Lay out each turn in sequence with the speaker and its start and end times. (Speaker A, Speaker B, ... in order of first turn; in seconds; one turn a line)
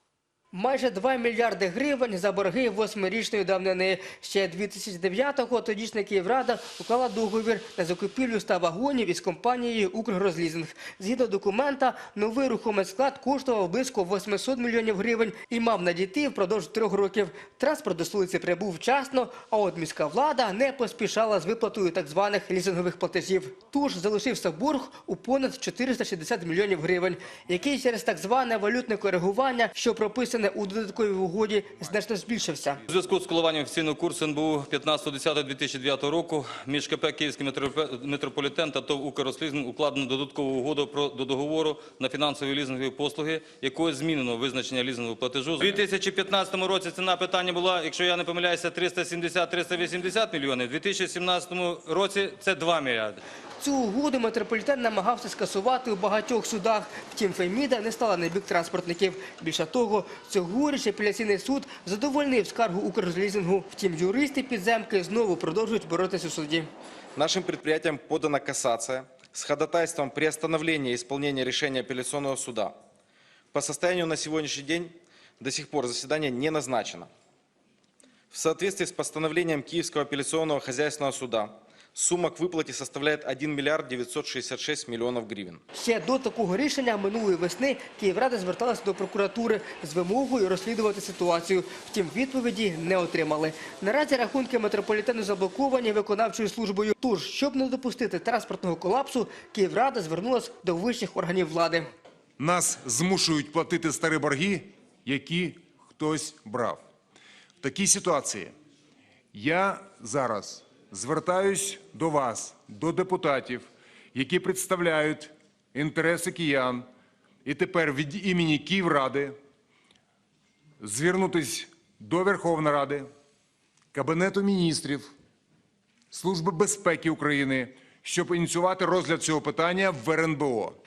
Speaker A: 0.5-32.8
Speaker B: 32.9-53.2
Speaker A: 53.6-66.7
Speaker C: 67.2-72.8
Speaker C: 73.5-77.1
Speaker C: 78.3-85.6
Speaker A: 85.7-101.9
Speaker D: 102.4-106.8
Speaker D: 107.6-108.5
Speaker D: 109.3-116.8
Speaker D: 117.4-119.3
Speaker D: 120.8-123.1
Speaker D: 123.9-125.1
Speaker D: 126.1-130.8